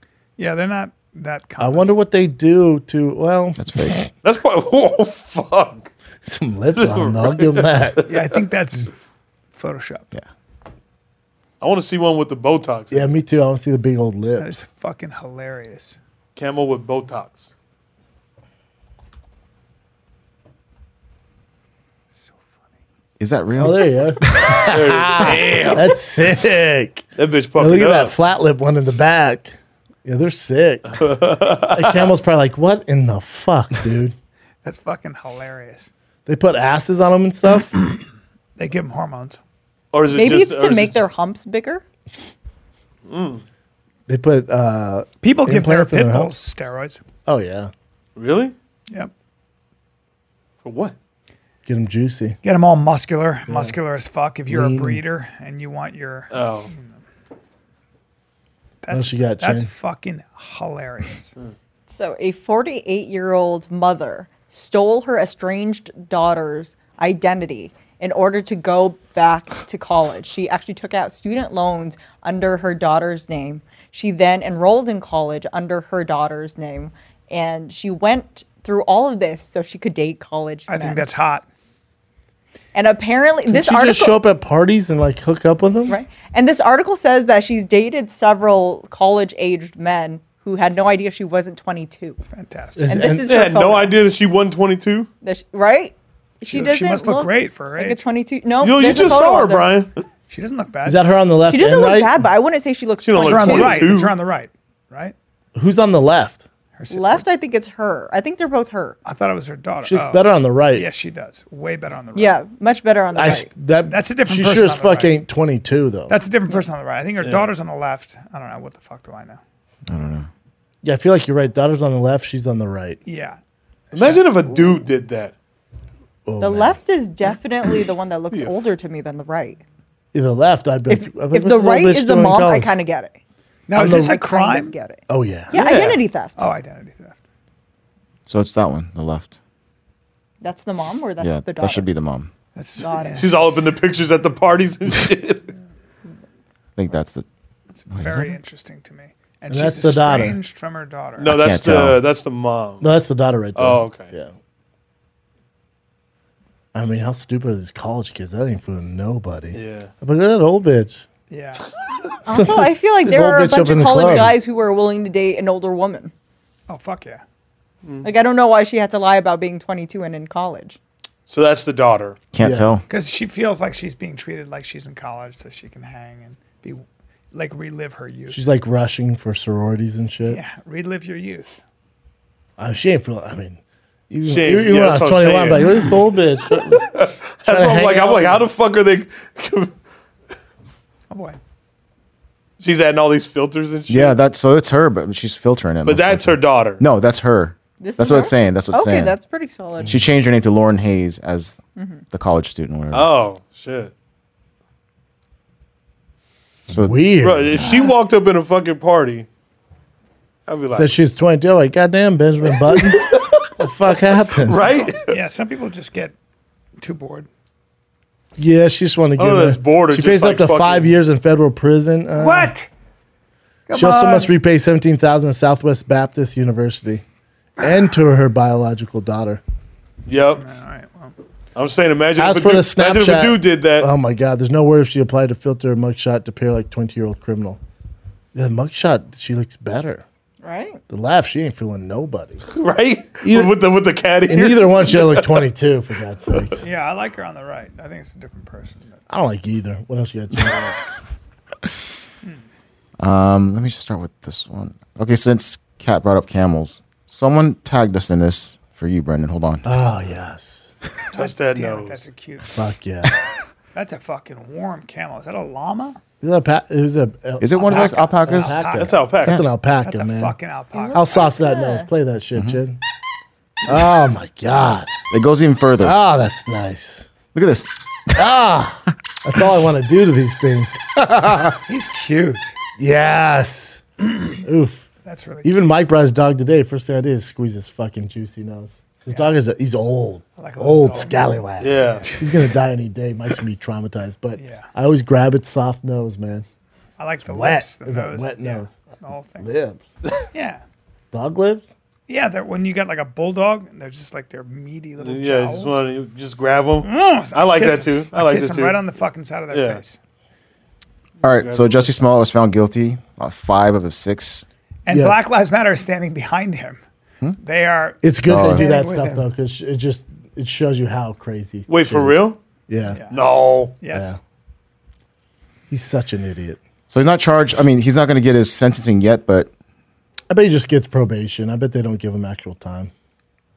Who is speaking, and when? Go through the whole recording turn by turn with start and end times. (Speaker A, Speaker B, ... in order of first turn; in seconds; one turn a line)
Speaker A: 0.4-1.9
Speaker B: 1.6-4.0
Speaker C: 3.6-4.1
Speaker D: 4.2-5.9
Speaker B: 6.2-8.0
Speaker D: 6.8-8.4
Speaker A: 8.1-8.9
Speaker A: 9.5-10.1
Speaker D: 11.6-13.1
Speaker B: 12.9-14.6
Speaker A: 14.4-16.0
Speaker D: 16.4-17.5
Speaker A: 22.1-22.6
Speaker C: 23.2-24.6
Speaker B: 23.6-27.0
Speaker D: 24.6-26.0
Speaker D: 27.2-28.1
Speaker B: 27.6-29.5
Speaker B: 30.1-34.2
Speaker D: 30.9-32.1
Speaker A: 34.6-35.9
Speaker B: 36.3-37.8
Speaker A: 38.6-39.4
Speaker D: 39.9-41.0
Speaker E: 40.1-41.8
Speaker D: 43.1-43.4
Speaker B: 44.1-46.4
Speaker A: 45.2-47.0
Speaker B: 47.3-47.7
Speaker D: 48.2-48.5
Speaker D: 50.6-51.0
Speaker B: 51.7-52.4
Speaker A: 52.4-57.0
Speaker B: 53.5-53.8
Speaker B: 54.5-55.0
Speaker D: 56.3-56.7
Speaker A: 58.8-61.3
Speaker B: 58.9-59.7
Speaker E: 61.9-81.0
Speaker A: 80.7-81.5
Speaker E: 82.7-84.2
Speaker B: 83.5-86.0
Speaker E: 85.9-92.2
Speaker A: 92.2-93.0
Speaker B: 92.8-93.3
Speaker E: 92.9-94.0
Speaker D: 93.2-95.1
Speaker E: 95.2-99.7
Speaker A: 96.5-98.0
Speaker D: 98.6-100.0
Speaker A: 100.3-101.0
Speaker B: 100.8-102.3
Speaker E: 101.5-103.9
Speaker D: 103.0-104.2
Speaker A: 103.2-105.2
Speaker B: 105.5-106.5
Speaker A: 106.8-107.3
Speaker E: 106.9-109.0
Speaker A: 109.0-112.4
Speaker B: 109.8-110.9
Speaker E: 112.2-113.5
Speaker B: 113.1-116.2
Speaker A: 113.9-115.2
Speaker A: 116.1-119.4
Speaker D: 117.2-117.5
Speaker C: 119.9-120.3
Speaker B: 120.8-123.0
Speaker A: 123.1-123.4
Speaker A: 123.9-124.3
Speaker D: 123.9-125.3
Speaker B: 126.3-126.8
Speaker E: 126.4-129.6
Speaker D: 128.3-128.6
Speaker B: 130.1-132.8
Speaker E: 130.9-133.2
Speaker A: 133.7-134.8
Speaker B: 133.8-134.1
Speaker E: 133.8-136.5
Speaker B: 135.1-135.6
Speaker D: 135.5-136.0
Speaker A: 136.4-137.2
Speaker C: 138.3-139.4
Speaker E: 140.4-141.9
Speaker C: 141.2-142.3
Speaker A: 142.6-143.6
Speaker E: 142.8-143.5
Speaker D: 143.2-145.5
Speaker C: 146.8-147.3
Speaker A: 147.7-151.3
Speaker C: 147.9-148.4
Speaker B: 149.5-150.4
Speaker D: 151.2-152.9
Speaker C: 151.3-152.0
Speaker B: 152.8-154.3
Speaker D: 153.6-154.1
Speaker B: 156.7-161.0
Speaker D: 159.5-159.9
Speaker A: 161.3-161.7
Speaker E: 162.3-166.1
Speaker B: 162.3-164.4
Speaker A: 166.7-167.2
Speaker D: 167.8-168.1
Speaker E: 168.0-170.8
Speaker D: 171.3-172.2
Speaker C: 172.3-172.8
Speaker B: 172.4-172.7
Speaker A: 172.9-178.4
Speaker B: 178.3-180.4
Speaker A: 180.3-181.6
Speaker B: 182.6-186.9
Speaker D: 184.3-189.7
Speaker B: 187.4-188.4
Speaker A: 191.1-191.4
Speaker D: 192.6-194.2
Speaker C: 193.9-199.2
Speaker D: 195.8-196.8
Speaker E: 197.8-200.0
Speaker C: 199.9-201.6
Speaker E: 201.8-202.0
Speaker C: 202.1-203.2
Speaker D: 202.9-203.9
Speaker C: 206.7-207.1
Speaker B: 206.7-207.9
Speaker D: 207.2-209.3
Speaker D: 210.5-211.0
Speaker B: 210.7-214.6
Speaker D: 212.6-215.2
Speaker A: 214.6-216.2
Speaker A: 216.8-217.3
Speaker B: 218.4-222.5
Speaker D: 219.2-220.9
Speaker A: 222.2-222.7
Speaker A: 223.7-224.3
Speaker B: 223.7-227.0
Speaker B: 227.6-229.4
Speaker D: 230.1-230.4
Speaker A: 230.4-231.2
Speaker D: 231.6-233.9
Speaker B: 232.2-237.6
Speaker B: 238.3-240.1
Speaker E: 240.4-240.8
Speaker B: 240.9-242.5
Speaker D: 242.5-245.5
Speaker B: 243.2-243.6
Speaker B: 244.2-246.7
Speaker D: 246.3-246.6
Speaker A: 246.6-249.0
Speaker B: 249.1-250.8
Speaker C: 253.0-259.7
Speaker B: 259.6-260.7
Speaker A: 261.1-262.5
Speaker D: 261.1-262.0
Speaker B: 262.5-263.1
Speaker A: 263.7-266.0
Speaker B: 266.2-270.4
Speaker C: 267.4-268.6
Speaker A: 267.6-269.1
Speaker D: 268.7-269.4
Speaker A: 269.8-271.3
Speaker E: 270.8-271.9
Speaker B: 270.9-272.8
Speaker B: 273.7-274.9
Speaker C: 275.1-276.0
Speaker B: 275.8-277.1
Speaker C: 277.3-278.2
Speaker B: 278.1-281.6
Speaker A: 281.6-282.6
Speaker B: 282.8-284.9
Speaker A: 285.1-285.7
Speaker B: 285.4-296.5
Speaker A: 289.1-289.3
Speaker A: 290.4-292.2
Speaker D: 291.6-292.2
Speaker A: 294.4-294.7
Speaker A: 297.0-299.5
Speaker B: 297.2-298.7
Speaker B: 299.4-299.9
Speaker A: 300.3-300.6
Speaker B: 301.1-301.7
Speaker A: 302.1-305.9
Speaker D: 305.0-308.8
Speaker A: 306.8-310.0
Speaker D: 309.5-309.8
Speaker C: 311.2-314.5
Speaker D: 311.4-311.9
Speaker A: 314.9-316.8
Speaker B: 314.9-315.2
Speaker A: 317.4-319.3
Speaker B: 318.0-323.0
Speaker C: 318.3-318.7
Speaker D: 321.7-322.4
Speaker A: 322.9-323.2
Speaker D: 323.1-323.8
Speaker A: 323.8-324.1
Speaker B: 323.9-324.2
Speaker B: 325.7-326.6
Speaker C: 326.9-329.5
Speaker B: 330.3-332.9